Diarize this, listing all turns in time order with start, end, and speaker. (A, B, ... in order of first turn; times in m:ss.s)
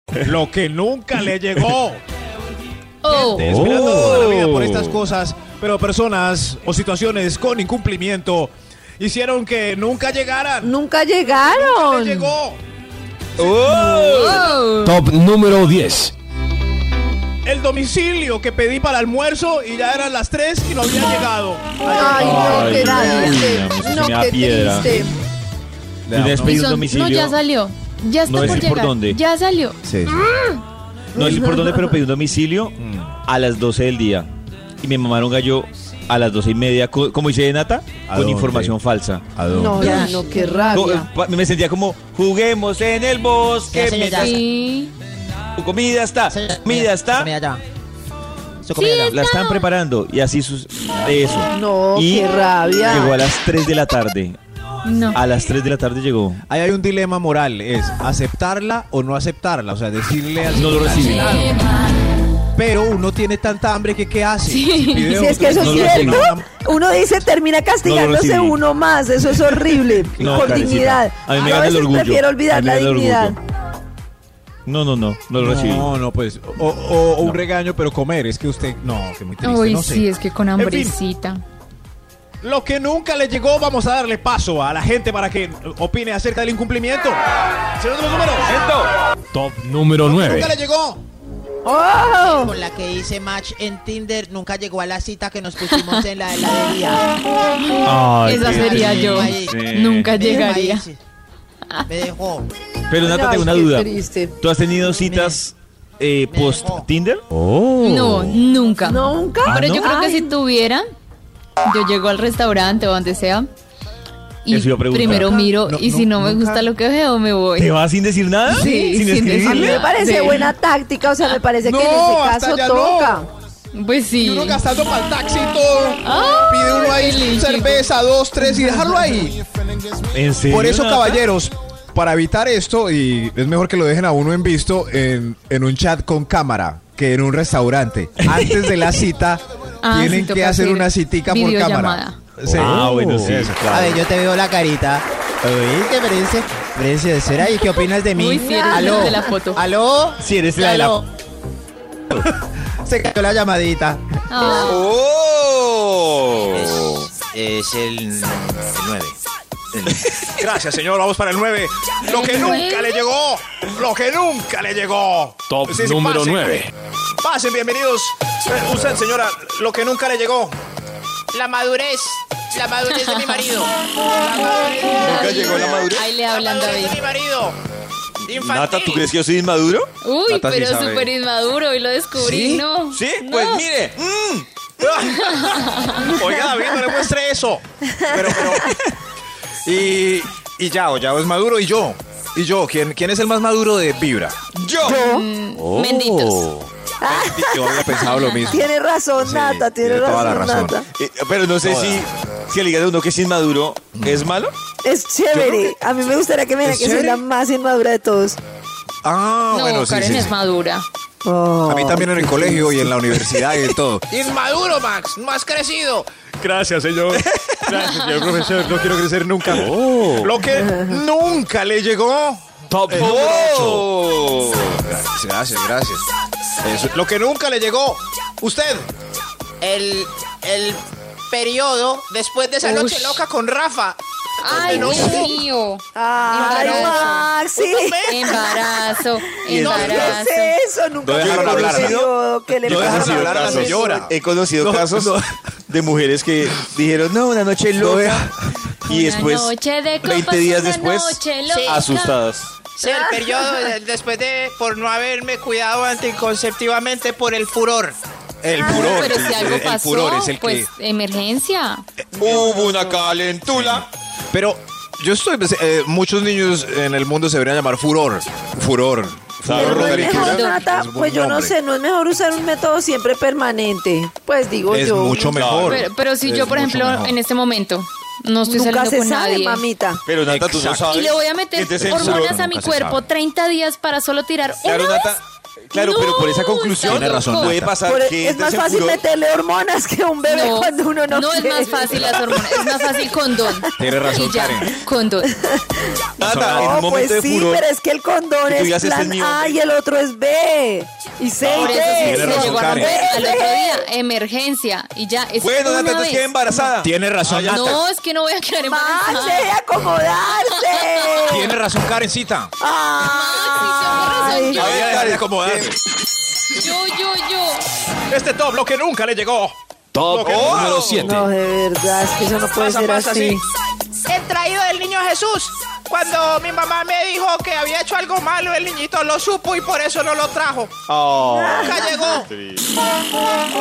0:00.2-0:02.0 A
0:03.0-0:03.8 B
0:03.1-0:10.7 A
0:03.4-0:05.0 C
0:10.6-0:12.4 D
0:11.4-0:12.6 A
0:13.4-0:14.5 C
0:13.8-0:15.0 B
0:14.8-0:16.1 E
0:17.4-0:23.3 A
0:21.9-0:25.1 D
0:22.0-0:25.0 C
0:26.1-0:26.7 A
0:26.1-0:27.4 C
0:26.4-0:29.8 B
0:28.2-0:29.2 C
0:28.4-0:28.6 A
0:29.8-0:30.2 A
0:31.1-0:32.0 D
0:31.1-0:34.3 C
0:32.8-0:33.1 A
0:34.8-0:39.2 C
0:38.1-0:38.7 A
0:39.3-0:40.4 A
0:39.5-0:41.1 D
0:39.7-0:40.8 B
0:39.8-0:40.2 F
0:39.8-0:40.1 C
0:40.7-0:44.4 C
0:43.7-0:44.3 F
0:44.2-0:44.9 B
0:45.6-0:47.3 C
0:46.3-0:47.6 F
0:48.6-0:49.1 F
0:48.7-0:49.6 B
0:49.1-0:54.4 C
0:51.5-0:53.2 D
0:54.8-0:55.2 B
0:55.1-0:56.4 C
0:56.5-1:01.5 A
1:00.5-1:01.5 C
1:01.0-1:01.6 B
1:02.6-1:06.5 A
1:04.4-1:05.3 B
1:05.1-1:13.4 D
1:05.6-1:06.2 C
1:07.8-1:08.6 C
1:10.1-1:13.4 C
1:10.2-1:10.6 A
1:14.6-1:15.9 C
1:15.4-1:21.0 A
1:19.4-1:21.4 B
1:22.4-1:27.2 A
1:27.8-1:28.5 A
1:28.4-1:28.9 C
1:29.3-1:30.6 E
1:30.0-1:31.0 A
1:31.6-1:32.5 D
1:32.3-1:37.1 F
1:35.6-1:36.0 B
1:37.6-1:40.9 B
1:37.8-1:40.2 C
1:38.5-1:39.6 F
1:40.1-1:41.0 F
1:41.9-1:42.5 F
1:42.9-1:47.2 C
1:43.0-1:44.3 D
1:45.0-1:45.4 F
1:46.3-1:46.9 F
1:47.4-1:48.2 E
1:47.8-1:50.8 B
1:48.8-1:50.3 D
1:49.4-1:49.9 C
1:51.6-1:53.5 B
1:54.4-1:57.8 B
1:54.5-1:55.3 C
1:55.1-1:56.7 A
1:57.6-1:59.8 C
1:58.4-2:00.5 B
1:58.6-1:58.9 D
1:59.4-2:03.3 D
2:01.6-2:03.3 A
2:03.7-2:04.6 B
2:04.2-2:09.4 A
2:06.0-2:07.8 B
2:08.4-2:09.0 B
2:10.1-2:11.2 C
2:10.5-2:23.8 A
2:19.8-2:22.2 B
2:22.5-2:24.0 C
2:22.5-2:23.2 E
2:23.7-2:30.9 F
2:28.2-2:29.6 B
2:28.2-2:29.3 D
2:30.2-2:31.0 C
2:30.6-2:30.9 B
2:32.9-2:34.0 F
2:34.3-2:34.9 B
2:34.4-2:37.1 C
2:36.5-2:39.2 F
2:39.9-2:40.3 C
2:40.3-2:46.7 A
2:42.0-2:43.0 B
2:45.5-2:46.7 E
2:47.2-2:50.6 A
2:51.3-2:54.9 F
2:52.9-2:53.5 B
2:54.4-2:55.6 A
2:54.6-2:57.0 B
2:55.0-2:56.1 C
2:56.2-2:57.1 A
2:57.0-2:57.6 F
2:58.2-2:59.9 C
2:58.3-2:59.0 F
3:00.0-3:03.7 B
3:00.3-3:01.1 A
3:02.1-3:02.6 A
3:02.9-3:04.5 C
3:04.8-3:08.7 A
3:05.0-3:06.0 B
3:09.6-3:14.4 A
3:14.5-3:15.0 C
3:14.8-3:15.3 D
3:14.8-3:16.5 B
3:15.6-3:16.6 E
3:17.0-3:17.8 D
3:17.1-3:20.8 A
3:17.8-3:18.6 B
3:18.5-3:20.9 D
3:20.9-3:24.5 C
3:21.6-3:22.0 A
3:24.0-3:24.3 A
3:24.8-3:28.4 D
3:25.3-3:25.7 A
3:26.6-3:27.2 A
3:29.0-3:30.4 A
3:29.5-3:30.9 B
3:31.2-3:33.0 D
3:31.7-3:43.9 A
3:37.1-3:37.8 C
3:37.8-3:38.3 B
3:39.5-3:40.4 E
3:40.5-3:41.0 D
3:42.7-3:43.2 E
3:42.9-3:44.9 C
3:44.9-3:46.1 A
3:46.6-3:48.9 A
3:49.6-3:54.9 F
3:52.7-3:53.6 A
3:54.4-3:57.3 B
3:54.5-3:55.3 C
3:54.6-3:55.4 A
3:56.0-3:59.0 D
3:56.3-3:58.5 A
3:58.1-4:00.6 B
3:59.4-4:00.2 C
3:59.5-4:04.1 D
3:59.6-4:00.0 F
4:01.0-4:02.0 A
4:01.2-4:05.1 C
4:02.6-4:05.2 A
4:05.7-4:12.6 C
4:07.8-4:08.3 A
4:08.9-4:12.1 B
4:11.5-4:11.8 F
4:12.8-4:18.0 F
4:12.8-4:13.7 B
4:18.4-4:20.7 A
4:18.5-4:21.8 B
4:22.2-4:22.6 A
4:22.2-4:23.9 C
4:23.5-4:31.6 A
4:29.4-4:30.5 C
4:29.5-4:35.4 D
4:30.2-4:30.6 B
4:34.7-4:37.1 A
4:35.3-4:35.8 C
4:35.6-4:39.6 B
4:38.4-4:40.0 D
4:40.0-4:42.4 C
4:40.2-4:40.9 A
4:40.9-4:45.2 B
4:41.8-4:43.0 A
4:44.6-4:49.0 C
4:45.7-4:47.5 B
4:46.8-4:47.7 A
4:47.8-4:52.6 D
4:50.2-4:55.3 B
4:53.5-4:53.8 D
4:53.8-4:54.7 A
4:55.2-4:55.9 D
4:56.2-4:56.7 A
4:56.2-4:57.7 C
4:56.5-5:03.9 D
4:58.4-4:59.6 C
5:01.4-5:02.6 C
5:01.4-5:03.2 A
5:01.6-5:06.6 B
5:05.4-5:07.8 C
5:06.8-5:07.8 A
5:07.5-5:09.5 B
5:08.6-5:11.6 D
5:10.3-5:11.4 B
5:11.3-5:12.5 A
5:12.6-5:14.7 D
5:13.0-5:14.7 B
5:14.3-5:15.8 A
5:14.5-5:15.8 C
5:16.5-5:17.6 B
5:18.1-5:21.2 A
5:19.9-5:21.3 E
5:20.2-5:21.0 C
5:21.0-5:23.4 D
5:22.6-5:23.4 A
5:24.1-5:30.8 F
5:30.9-5:32.7 C
5:31.2-5:32.0 D
5:31.6-5:32.3 F